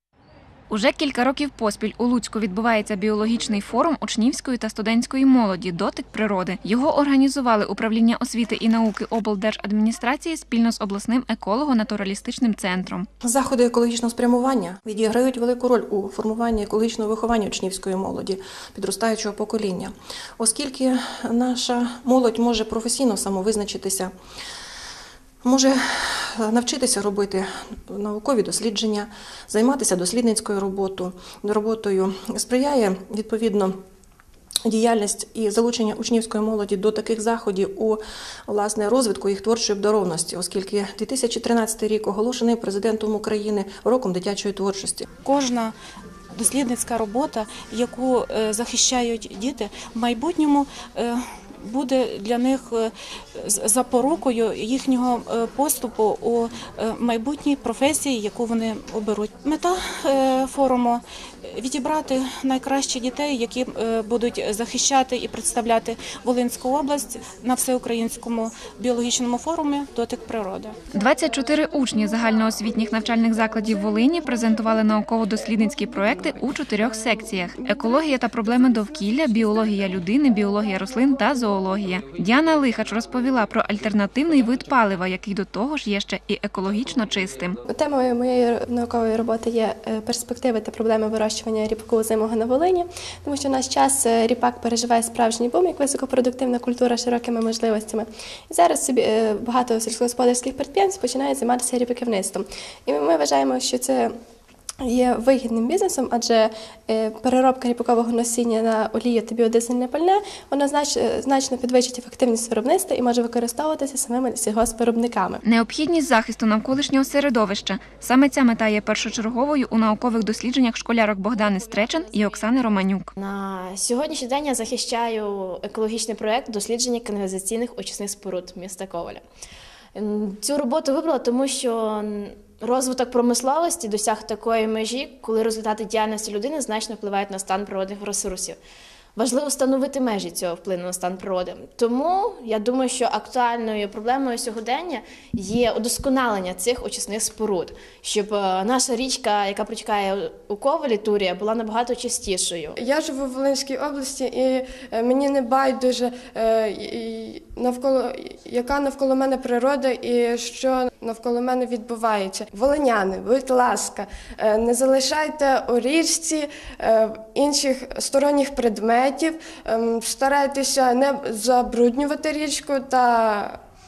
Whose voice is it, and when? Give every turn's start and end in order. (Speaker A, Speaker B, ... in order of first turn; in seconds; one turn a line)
Speaker A: 0.7-13.1
Speaker B: 13.2-24.1
Speaker B: 25.4-33.8
Speaker B: 34.6-45.0
Speaker C: 45.2-45.7
Speaker C: 46.3-70.8
Speaker A: 70.9-87.6
Speaker D: 87.7-104.1
Speaker D: 104.8-115.4
Speaker A: 115.4-123.1
Speaker E: 121.3-122.5
Speaker E: 123.2-129.2
Speaker E: 129.9-138.6
Speaker E: 139.2-152.8
Speaker F: 152.8-173.6